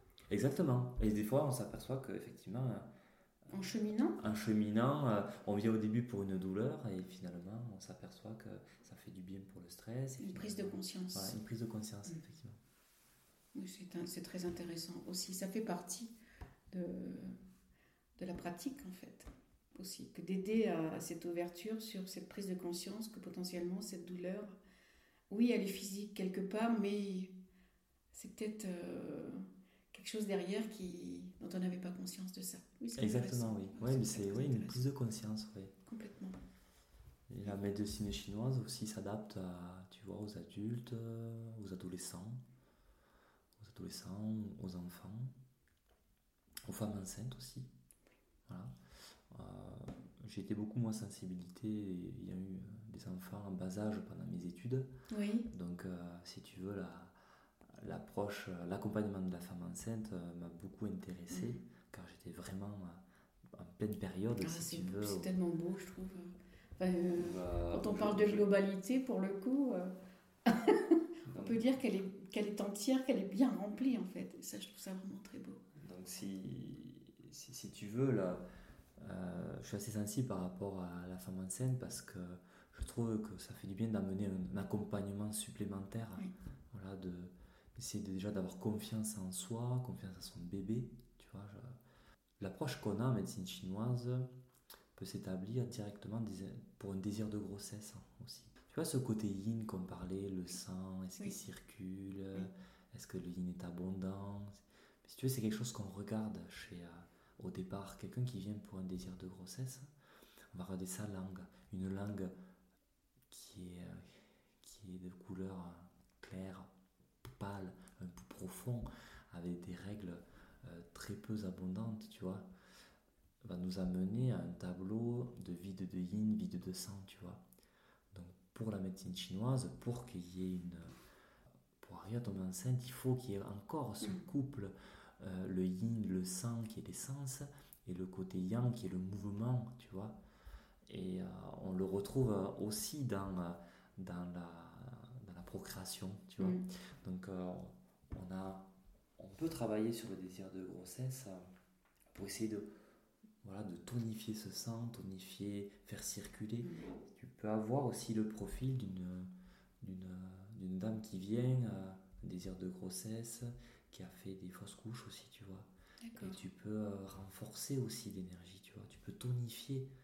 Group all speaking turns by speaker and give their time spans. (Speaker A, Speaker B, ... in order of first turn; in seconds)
Speaker A: 0.3-2.9, 4.2-12.6, 33.0-35.7, 37.3-42.4, 43.6-45.4, 46.7-47.7, 48.5-48.7, 49.3-54.9, 55.5-57.1, 57.7-65.3, 67.1-68.5, 71.3-71.6, 75.8-78.4, 79.0-91.8, 92.4-94.3, 95.0-109.9, 110.5-112.3, 113.3-116.7, 117.2-122.5, 123.4-127.4, 128.1-131.0, 131.8-140.2, 140.9-151.4, 152.1-152.7, 153.4-159.3, 159.8-169.9
Speaker B: 3.5-4.2, 10.2-11.3, 13.5-16.1, 16.7-17.4, 18.2-24.6, 25.3-27.3, 28.1-34.8, 35.9-36.4, 55.1-55.5, 61.3-61.6, 64.4-69.9, 70.5-75.6, 166.0-166.4